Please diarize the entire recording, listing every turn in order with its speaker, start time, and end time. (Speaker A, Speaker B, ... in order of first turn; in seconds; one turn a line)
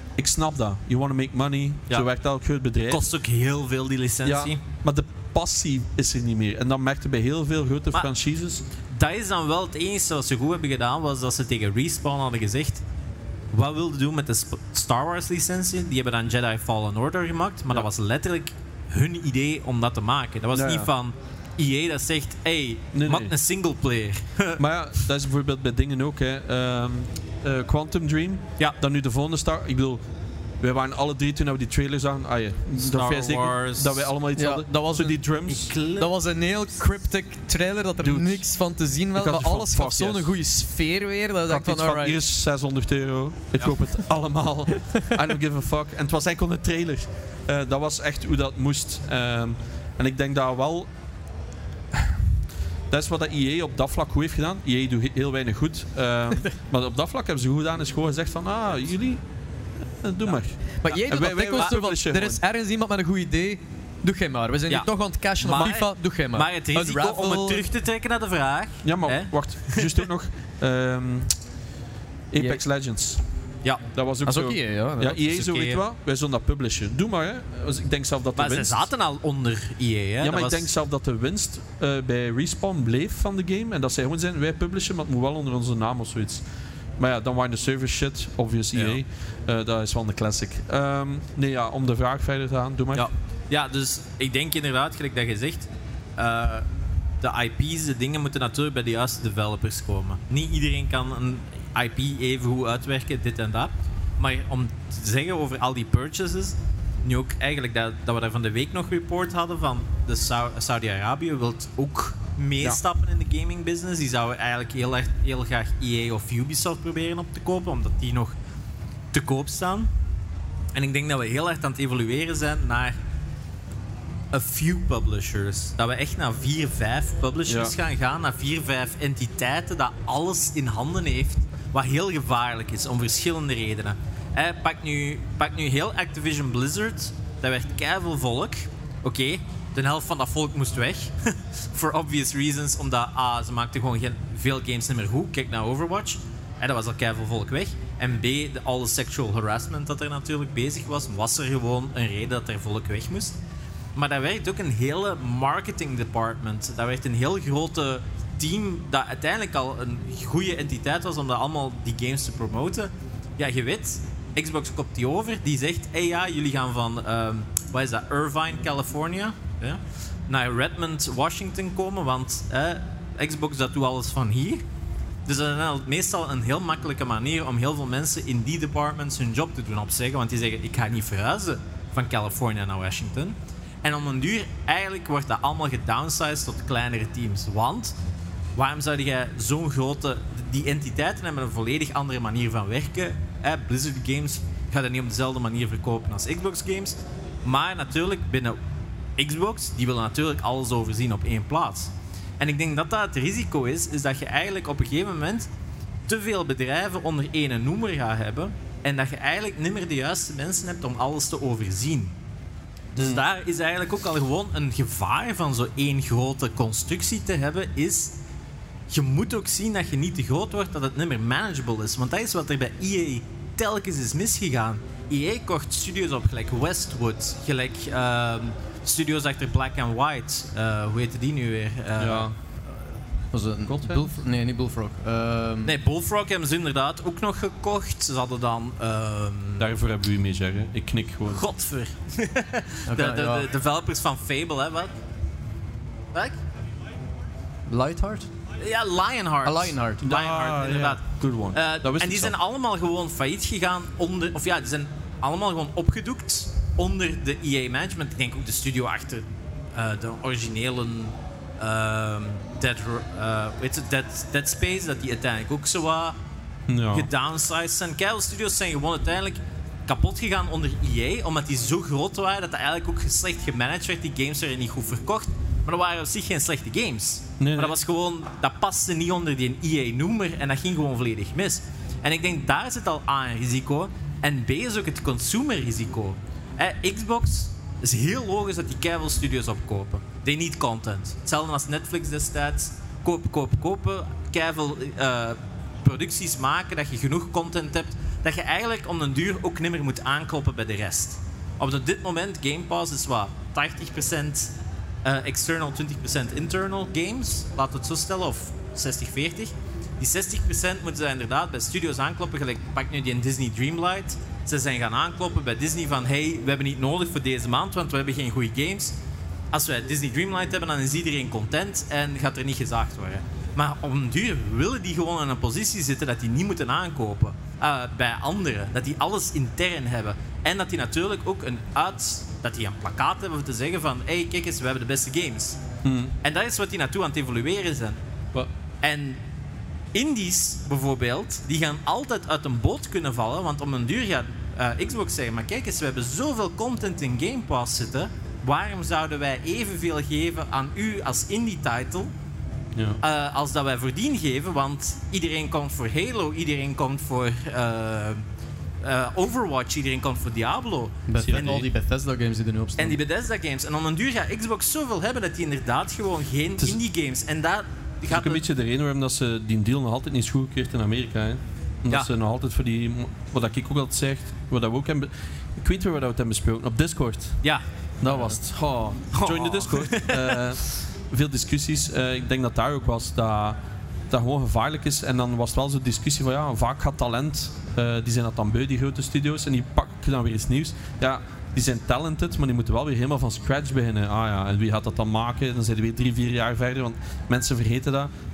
Speaker A: 0.2-3.0
Speaker B: 2.9-4.6
Speaker A: 4.2-8.6
Speaker B: 8.9-12.8
Speaker B: 13.5-24.6
Speaker A: 20.5-20.9
Speaker A: 22.9-23.3
Speaker A: 24.6-30.0
Speaker A: 30.6-35.7
Speaker B: 32.8-34.1
Speaker C: 34.4-35.4
Speaker B: 35.5-36.1
Speaker C: 36.0-42.2
Speaker A: 38.0-38.5
Speaker A: 39.1-40.3
Speaker A: 41.5-50.9
Speaker A: 52.9-59.2
Speaker A: 60.0-62.4
Speaker C: 60.8-67.7
Speaker B: 64.7-70.1
Speaker A: 68.8-71.3
Speaker A: 72.3-73.2
Speaker C: 72.3-72.6
Speaker A: 73.9-78.8
Speaker C: 74.2-75.2
Speaker B: 75.2-75.8
Speaker B: 78.4-80.7
Speaker A: 80.2-86.4
Speaker A: 87.0-93.1
Speaker B: 88.7-89.0
Speaker B: 92.9-96.7
Speaker B: 97.2-118.3
Speaker B: 119.1-119.9
Speaker B: 120.7-123.0
Speaker B: 124.3-153.4
Speaker A: 127.5-127.7
Speaker B: 153.9-174.6
Speaker B: 175.3-187.9
Speaker B: 188.6-198.6
Speaker B: 199.2-205.5
Speaker B: 206.1-212.1
Speaker B: 213.0-218.2
Speaker A: 213.0-213.2
Speaker B: 218.9-232.3
Speaker A: 232.0-232.3
Speaker C: 233.3-235.8
Speaker A: 233.7-234.1
Speaker B: 235.6-239.7
Speaker A: 239.6-241.4
Speaker B: 241.3-244.9
Speaker C: 242.9-243.5
Speaker C: 247.7-248.3
Speaker B: 248.6-266.2
Speaker C: 249.4-250.0
Speaker A: 250.0-252.3
Speaker A: 266.7-267.1
Speaker B: 266.9-304.5
Speaker A: 277.4-277.8
Speaker B: 305.0-318.9
Speaker B: 319.5-335.6
Speaker A: 335.8-336.1
Speaker B: 336.2-338.0
Speaker B: 338.8-339.2
Speaker B: 339.9-352.1
Speaker A: 352.8-353.0
Speaker B: 353.0-358.2
Speaker B: 358.8-361.6
Speaker C: 361.1-363.0
Speaker A: 361.2-361.6
Speaker B: 362.8-368.4
Speaker A: 368.1-377.4
Speaker B: 377.4-378.3
Speaker A: 378.0-383.6
Speaker B: 379.1-380.4
Speaker A: 384.1-398.1